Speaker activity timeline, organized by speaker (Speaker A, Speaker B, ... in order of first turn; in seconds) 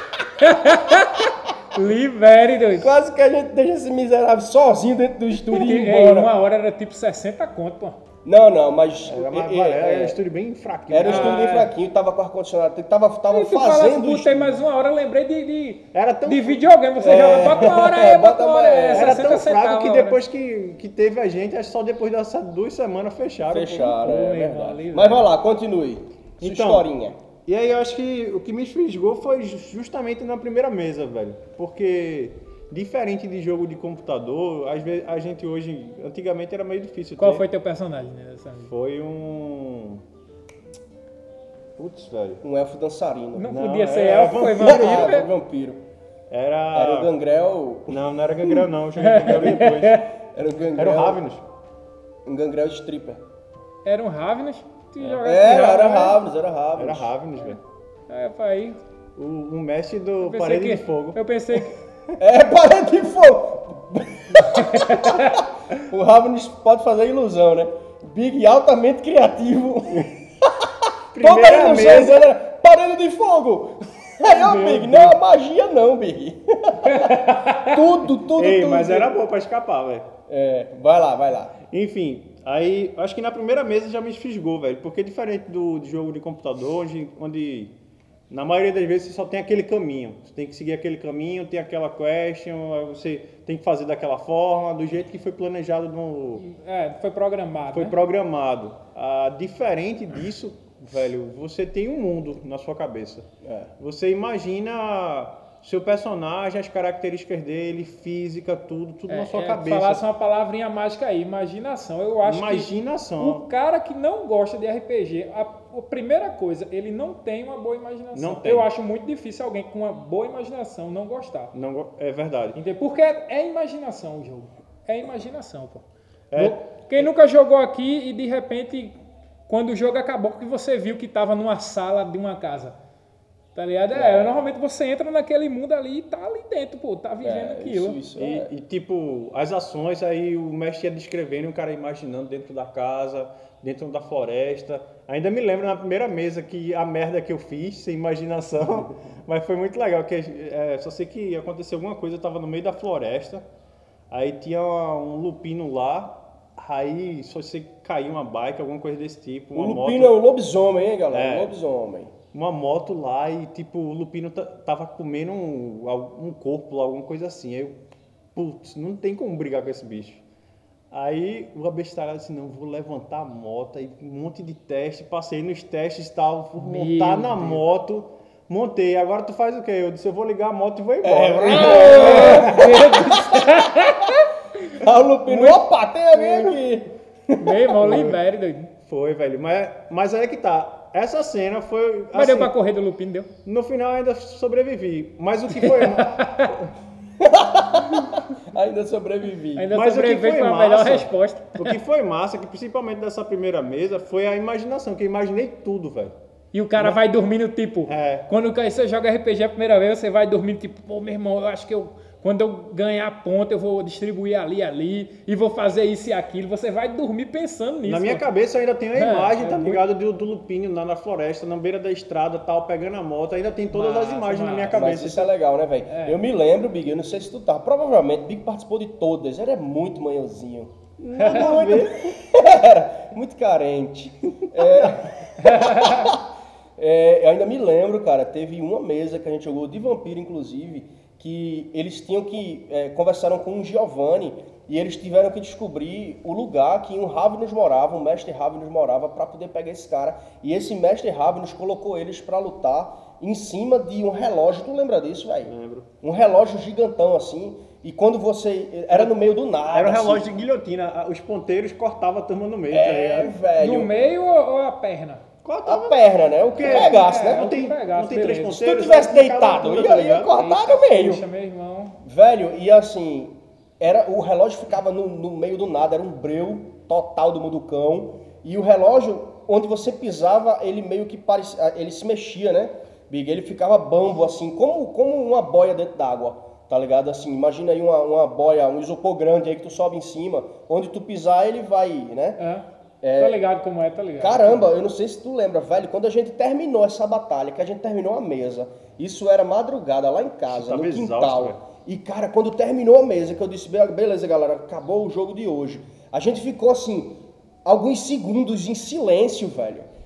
Speaker A: 0.4-2.9, 5.5-8.0, 11.0-11.7, 13.3-20.2, 24.0-25.3, 37.2-38.7, 43.4-45.2, 49.0-50.0, 53.8-56.2, 58.1-58.8, 60.2-61.8, 64.6-65.4, 74.3-75.1, 76.8-77.8, 96.4-97.9, 109.1-121.5, 122.5-125.8, 126.3-129.0, 129.5-132.8, 133.5-138.0, 176.6-177.6, 181.6-185.6, 187.4-188.7, 192.1-193.3, 195.6-196.5, 199.6-201.8, 206.5-218.2, 218.9-219.8, 223.7-224.8, 225.9-226.2, 235.4-236.1, 263.6-265.2, 266.6-268.6, 270.3-272.0, 292.4-292.6, 293.2-294.7
Speaker B: 2.8-6.3, 8.2-10.2, 10.9-14.6, 17.0-19.4, 23.5-27.2, 42.4-43.5, 44.1-45.8, 46.7-48.0, 50.3-51.2, 52.2-53.2, 55.2-57.1, 62.2-79.1, 80.3-81.6, 103.4-103.7, 133.9-134.3, 137.2-138.5, 159.5-162.1, 181.0-183.7, 184.7-187.6, 197.2-199.7, 224.7-230.7, 231.2-236.2, 236.8-260.3, 262.7-263.9, 265.6-267.6, 268.5-271.2, 272.0-292.4, 293.0-293.4, 294.2-309.9
Speaker C: 9.1-11.7, 15.9-16.7, 18.9-24.2, 26.4-26.8, 27.4-37.5, 38.7-40.0, 41.8-42.4, 43.5-45.2, 46.3-47.1, 47.9-50.0, 50.7-51.4, 55.0-55.6, 56.8-57.6, 59.2-61.2, 71.1-72.3, 78.3-80.1, 81.7-87.7, 88.3-96.4, 97.7-103.3, 103.8-110.0, 112.2-113.5, 118.1-118.7, 121.5-122.6, 126.3-127.1, 138.2-153.4, 154.1-160.2, 161.1-161.5, 162.3-167.8, 168.3-170.2, 170.9-182.9, 187.8-188.2, 188.8-192.5, 193.4-196.7, 199.7-206.1, 207.9-208.3, 217.8-225.3, 231.0-232.2, 255.4-255.9, 259.7-263.4, 265.4-270.3, 300.5-301.6